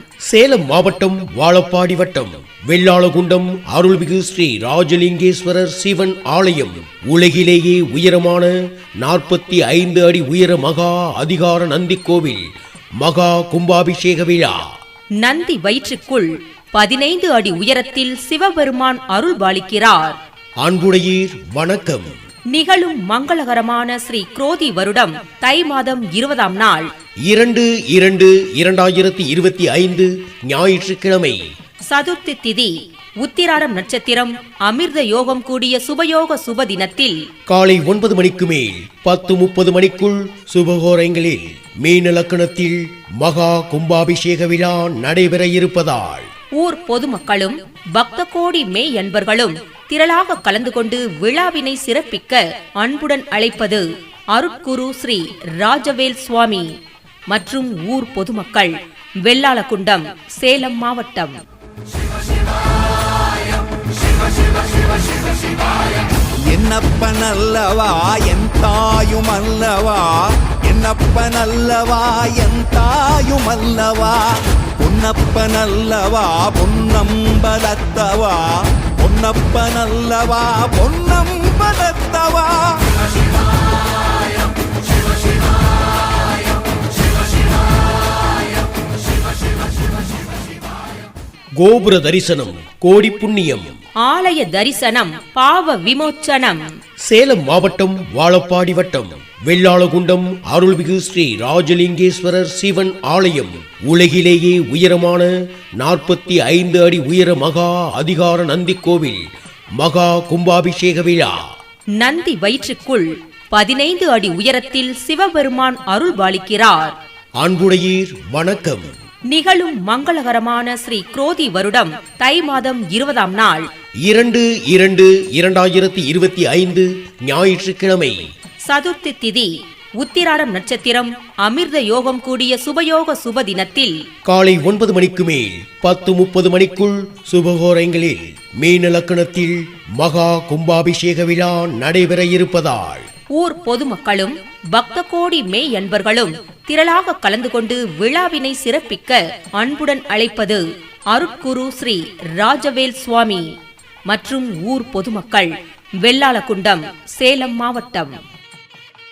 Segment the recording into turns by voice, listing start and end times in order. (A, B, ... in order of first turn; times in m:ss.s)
0:00.3-0:12.4 A
0:13.0-0:14.6 A
0:15.2-0:20.2 B
0:20.6-0:22.1 A
0:22.5-0:26.9 B
0:27.3-0:31.4 A
0:31.9-0:37.2 B
0:37.5-0:46.3 A
0:46.6-0:56.7 B
0:57.3-1:01.4 B
1:06.5-1:22.8 C
1:31.6-1:33.8 A
1:34.0-1:36.6 B
1:37.0-1:49.2 A
1:49.8-1:51.4 A
1:52.0-1:56.9 B
1:57.4-1:58.9 A
1:59.3-2:03.6 B
2:04.0-2:08.2 A
2:08.6-2:14.0 B
2:14.2-2:23.1 A
2:23.3-2:33.5 B
2:34.1-2:38.2 B